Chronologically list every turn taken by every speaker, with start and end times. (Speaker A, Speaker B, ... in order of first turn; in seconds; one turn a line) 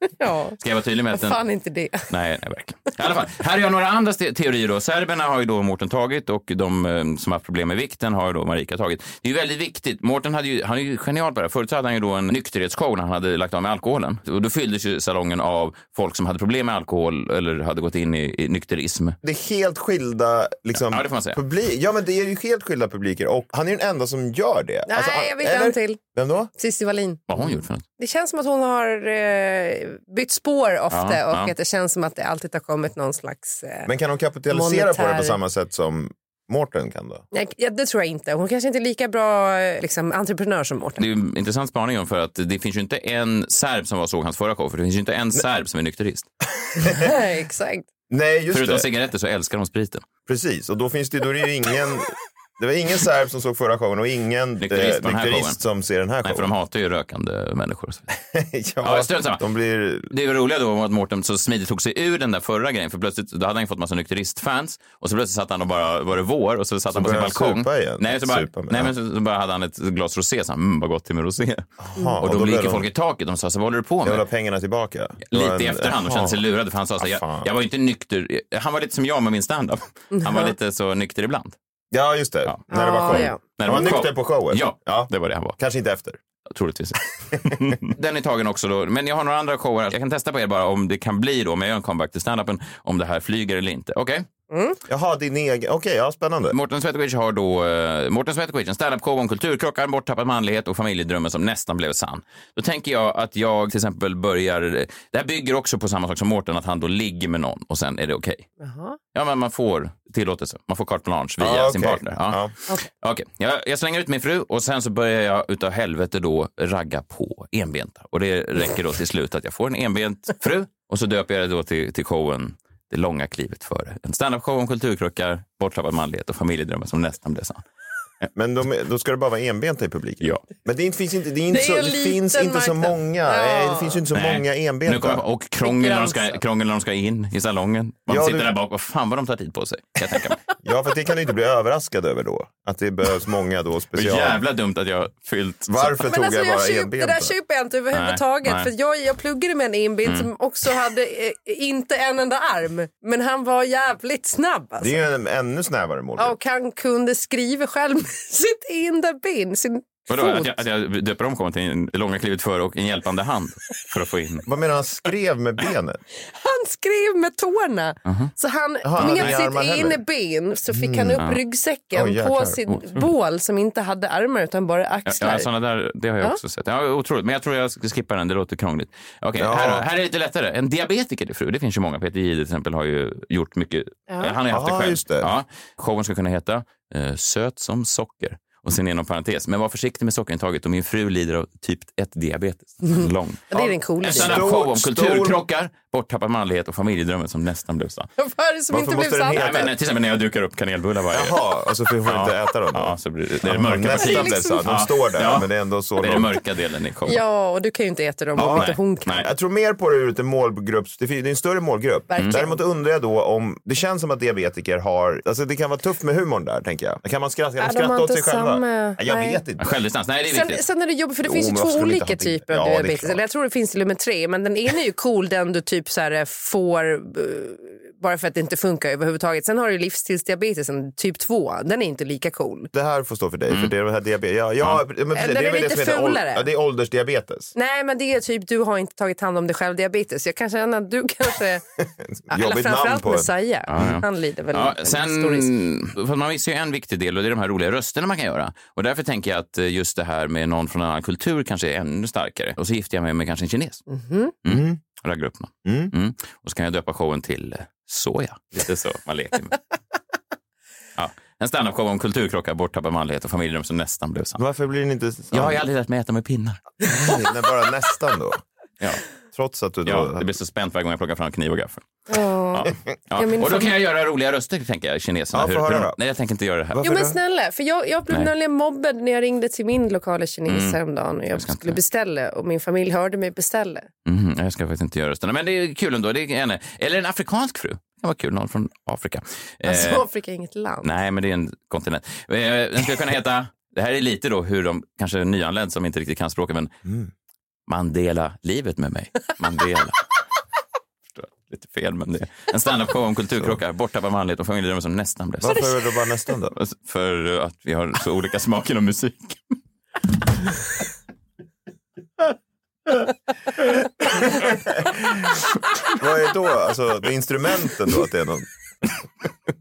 Speaker A: 0.2-0.6
Speaker B: 0.6-1.4
Speaker A: 1.1-2.0
Speaker B: 2.1-19.1
Speaker C: 19.2-26.5
Speaker B: 20.7-21.4
Speaker A: 24.9-26.0
Speaker A: 26.6-33.9
Speaker B: 27.3-27.8
Speaker B: 30.9-31.5
Speaker C: 33.9-37.2
Speaker A: 34.5-35.4
Speaker A: 37.3-41.0
Speaker B: 41.0-46.3
Speaker A: 47.0-47.8
Speaker C: 48.1-48.9
Speaker B: 48.5-50.0
Speaker C: 50.3-56.5
Speaker B: 54.6-55.6
Speaker B: 56.2-58.0
Speaker C: 58.3-60.1
Speaker B: 58.8-59.4
Speaker B: 60.1-71.7
Speaker C: 66.9-68.9
Speaker C: 71.8-72.9
Speaker B: 72.2-74.2
Speaker C: 74.0-76.4
Speaker B: 75.2-81.5
Speaker C: 77.0-77.5
Speaker A: 80.1-80.5
Speaker C: 81.9-86.2
Speaker B: 82.5-85.6
Speaker A: 82.7-83.4
Speaker B: 86.5-94.2
Speaker A: 94.5-94.8
Speaker C: 94.9-96.5
Speaker B: 96.5-108.5
Speaker A: 108.6-109.0
Speaker B: 109.1-127.6
Speaker C: 111.4-112.5
Speaker C: 128.3-135.2
Speaker A: 131.5-134.0
Speaker B: 134.1-140.4
Speaker A: 135.6-136.4
Speaker C: 138.1-138.5
Speaker C: 140.6-144.4
Speaker B: 143.9-146.0
Speaker C: 145.7-147.3
Speaker A: 146.0-154.9
Speaker B: 147.9-148.7
Speaker C: 154.8-156.3
Speaker A: 156.2-160.6
Speaker B: 160.1-164.4
Speaker C: 164.4-166.0
Speaker A: 166.3-175.5
Speaker B: 168.0-168.3
Speaker C: 168.8-170.0
Speaker B: 169.0-169.3
Speaker C: 170.7-171.2
Speaker C: 171.9-172.6
Speaker B: 172.7-173.1
Speaker B: 175.1-198.1
Speaker C: 179.3-179.8
Speaker A: 184.1-184.3
Speaker C: 184.5-185.3
Speaker A: 192.9-194.5
Speaker C: 193.6-195.4
Speaker A: 198.2-199.5
Speaker C: 198.7-199.7
Speaker B: 199.3-207.2
Speaker C: 201.1-206.3
Speaker A: 203.9-204.6
Speaker A: 207.1-209.2
Speaker C: 208.3-219.7
Speaker B: 208.5-209.3
Speaker A: 212.1-212.6
Speaker A: 217.6-219.4
Speaker B: 219.6-220.6
Speaker A: 220.3-232.7
Speaker C: 221.2-223.2
Speaker C: 232.7-237.5
Speaker A: 235.1-236.5
Speaker A: 237.5-241.6
Speaker C: 241.8-243.3
Speaker A: 242.3-245.5
Speaker B: 243.7-253.8
Speaker A: 253.9-254.3
Speaker B: 254.4-259.6
Speaker C: 254.4-254.8
Speaker C: 255.7-255.9
Speaker B: 261.0-264.4
Speaker C: 264.4-265.6
Speaker B: 265.3-266.6
Speaker C: 266.9-268.4
Speaker C: 269.3-270.3
Speaker B: 269.8-271.9
Speaker A: 272.1-273.7
Speaker B: 272.6-277.0
Speaker C: 275.3-275.9
Speaker C: 276.8-277.1
Speaker A: 276.8-283.9
Speaker B: 280.5-280.8
Speaker B: 281.3-281.8
Speaker B: 284.1-290.0
Speaker A: 289.6-290.9
Speaker B: 290.8-296.7
Speaker B: 297.7-300.1
Speaker B: 301.1-305.7
Speaker C: 305.4-306.5
Speaker B: 306.5-309.5
Speaker C: 314.0-318.9